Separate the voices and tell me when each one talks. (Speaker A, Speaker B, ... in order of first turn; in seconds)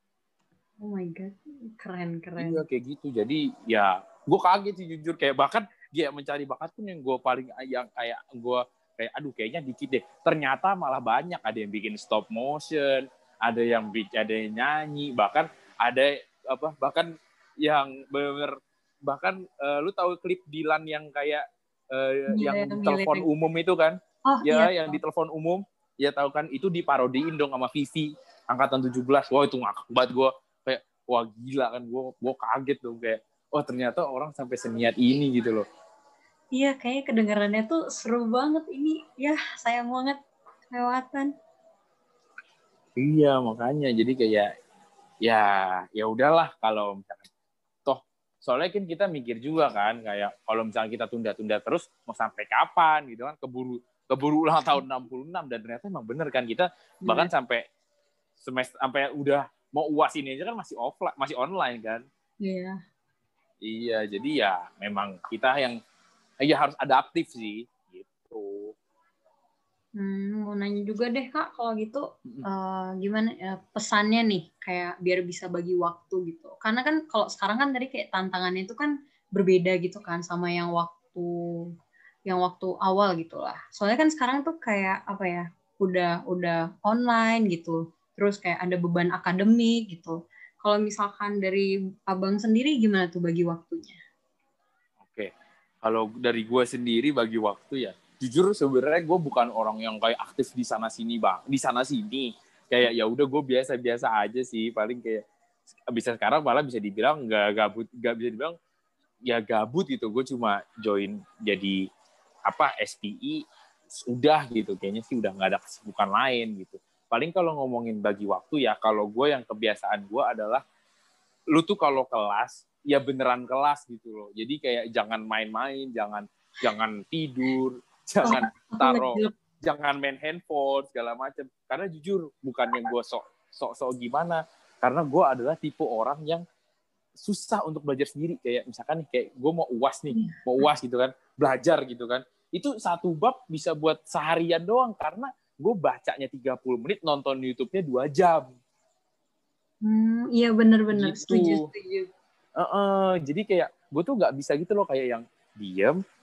Speaker A: 0.8-2.6, 22.3-23.2, 24.3-25.0, 36.5-40.2, 40.7-41.3, 57.0-57.3, 62.4-62.8, 70.0-81.6, 82.3-94.0, 128.2-129.3, 140.1-140.7, 149.8-152.1
Speaker B: 2.4-35.6, 43.0-44.5, 45.2-47.2, 47.8-57.6, 58.4-62.0, 63.6-65.8, 66.4-68.7, 95.0-95.3, 95.8-105.2, 105.9-108.5, 109.3-111.8, 112.5-113.4, 114.0-120.6, 121.5-136.4, 137.2-148.5, 150.9-151.6, 152.6-156.0